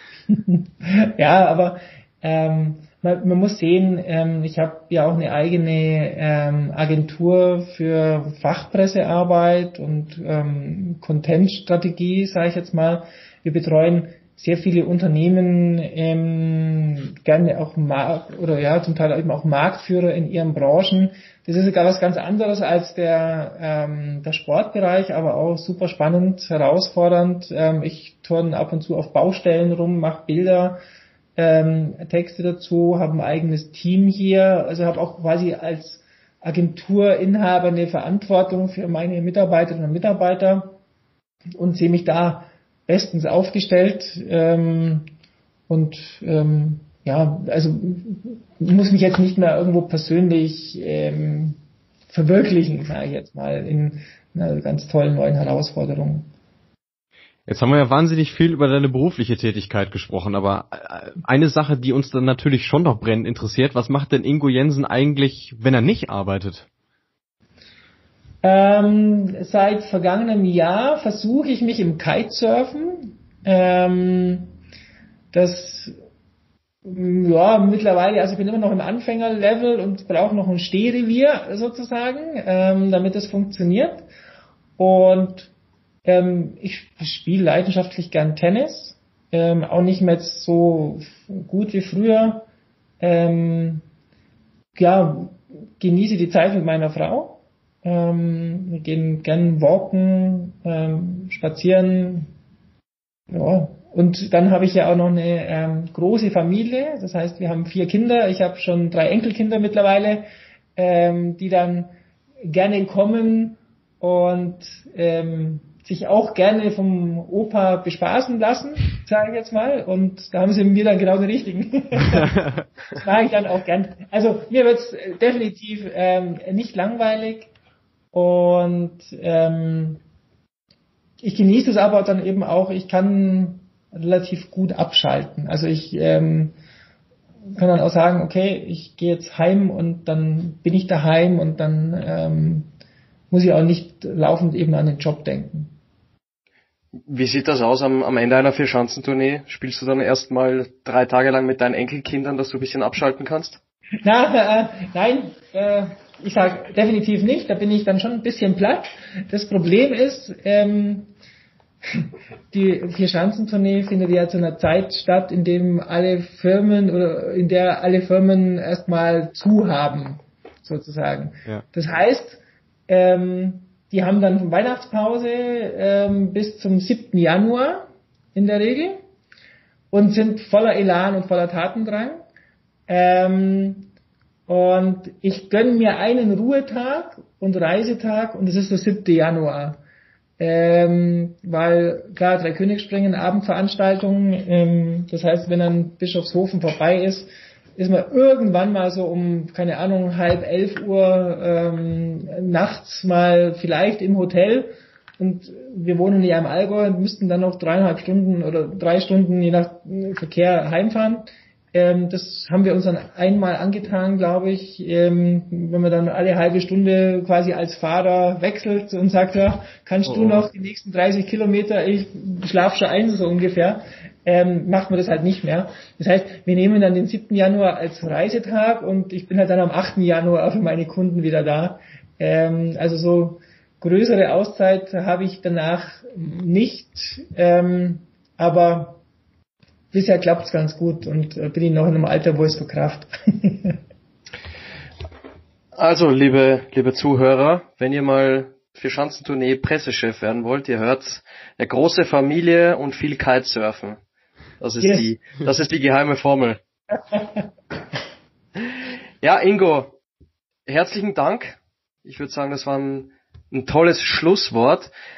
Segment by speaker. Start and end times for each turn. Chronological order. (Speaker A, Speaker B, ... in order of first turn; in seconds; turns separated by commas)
Speaker A: 0.3-30.8, Speaker A: 31.4-40.8, Speaker A: 41.6-45.1, Speaker A: 45.7-51.6, Speaker A: 52.1-56.3, Speaker B: 57.5-66.7, Speaker A: 68.4-74.5, Speaker A: 75.3-76.0, Speaker A: 76.8-84.1, Speaker A: 84.8-85.5, Speaker A: 86.0-92.5, Speaker A: 93.0-93.8, Speaker A: 94.8-102.3, Speaker A: 103.3-111.9, Speaker A: 112.4-122.4, Speaker A: 122.9-127.5, Speaker A: 128.1-130.0, Speaker A: 131.2-136.5, Speaker A: 137.6-142.7, Speaker A: 143.3-145.8, Speaker C: 147.1-153.6, Speaker A: 154.0-161.1, Speaker A: 161.9-179.0, Speaker A: 179.9-182.2, Speaker A: 182.9-183.9, Speaker A: 184.5-189.8, Speaker A: 190.4-239.0, Speaker B: 220.1-220.5, Speaker A: 239.9-243.8, Speaker C: 245.8-254.0, Speaker C: 254.6-256.6, Speaker A: 254.8-255.1, Speaker A: 257.1-257.5, Speaker C: 259.2-260.0, Speaker C: 260.7-264.9